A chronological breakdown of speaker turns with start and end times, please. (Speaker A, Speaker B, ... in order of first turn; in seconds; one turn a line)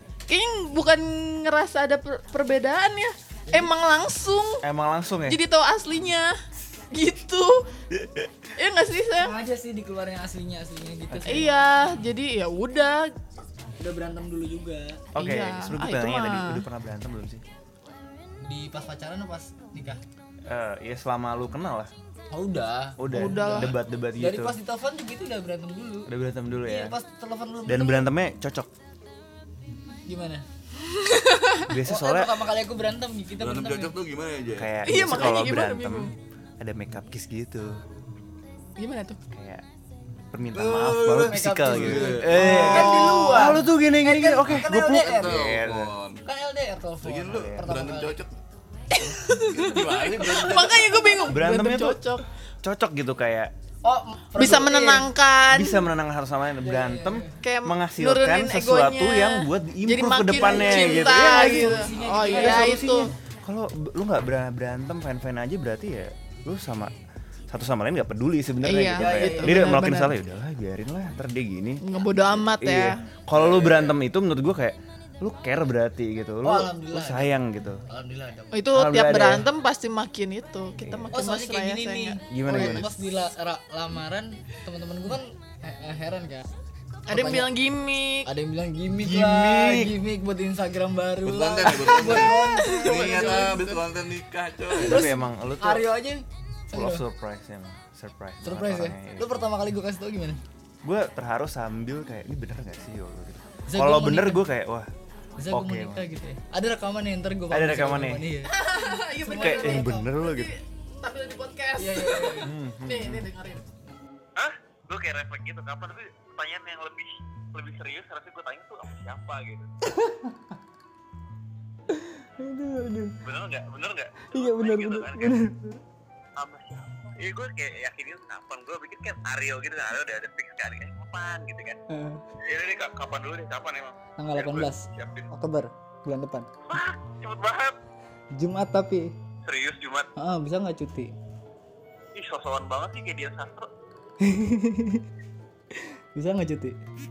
Speaker A: 0.3-4.6
Speaker B: 4.6-5.4
Speaker A: 5.3-6.3
Speaker A: 6.9-7.7
Speaker B: 7.9-8.3
Speaker A: 8.6-9.3
Speaker C: 9.2-11.7
Speaker B: 11.1-11.5
Speaker A: 11.3-13.1
Speaker C: 13.8-15.0
Speaker A: 15.1-16.6
Speaker B: 15.1-17.4
Speaker C: 18.4-20.0
Speaker B: 20.5-21.9
Speaker C: 22.3-26.1
Speaker B: 23.0-24.6
Speaker A: 23.1-23.7
Speaker B: 26.1-26.9
Speaker C: 26.6-28.1
Speaker B: 27.6-28.7
Speaker C: 30.1-30.4
Speaker A: 30.8-31.6
Speaker B: 31.6-32.4
Speaker C: 31.8-34.0
Speaker D: 33.4-34.8
Speaker B: 34.5-37.8
Speaker A: 34.9-36.1
Speaker A: 38.8-39.2
Speaker B: 39.3-39.6
Speaker B: 40.3-45.9
Speaker C: 40.5-45.4
Speaker D: 41.7-43.3
Speaker D: 45.0-46.2
Speaker C: 46.2-48.2
Speaker D: 47.0-48.3
Speaker B: 47.3-47.7
Speaker A: 48.9-52.2
Speaker D: 49.3-51.0
Speaker B: 51.2-52.1
Speaker B: 52.6-53.5
Speaker C: 53.8-55.1
Speaker A: 54.4-55.9
Speaker B: 55.5-66.9
Speaker C: 56.6-57.4
Speaker A: 57.4-63.1
Speaker C: 60.3-63.0
Speaker B: 67.5-77.8
Speaker A: 68.6-70.1
Speaker C: 69.0-69.8
Speaker A: 71.8-73.0
Speaker C: 73.3-74.0
Speaker C: 76.4-78.6
Speaker A: 78.5-82.9
Speaker B: 78.7-79.5
Speaker B: 80.8-81.1
Speaker C: 81.1-86.5
Speaker B: 82.3-82.9
Speaker C: 87.1-87.5
Speaker A: 87.1-88.3
Speaker C: 88.2-93.5
Speaker B: 88.9-90.0
Speaker D: 91.2-95.1
Speaker A: 92.6-93.8
Speaker B: 94.8-95.9
Speaker C: 94.8-97.0
Speaker B: 96.7-99.4
Speaker C: 98.4-100.4
Speaker B: 100.8-104.9
Speaker C: 103.7-104.4
Speaker C: 105.4-108.5
Speaker B: 105.5-106.1
Speaker B: 107.5-108.3
Speaker A: 108.5-113.7
Speaker C: 109.2-110.0
Speaker B: 109.3-110.5
Speaker C: 111.8-112.5
Speaker B: 112.4-113.3
Speaker E: 114.4-119.7
Speaker C: 120.0-120.3
Speaker C: 122.4-123.2
Speaker E: 123.2-125.4
Speaker C: 124.3-125.8
Speaker E: 126.4-131.8
Speaker C: 131.9-132.2
Speaker E: 132.5-135.2
Speaker C: 134.2-136.5
Speaker E: 136.7-137.7
Speaker C: 138.3-139.1
Speaker E: 139.4-140.1
Speaker C: 140.2-141.1
Speaker E: 142.1-143.7
Speaker C: 144.2-145.0
Speaker C: 146.2-146.8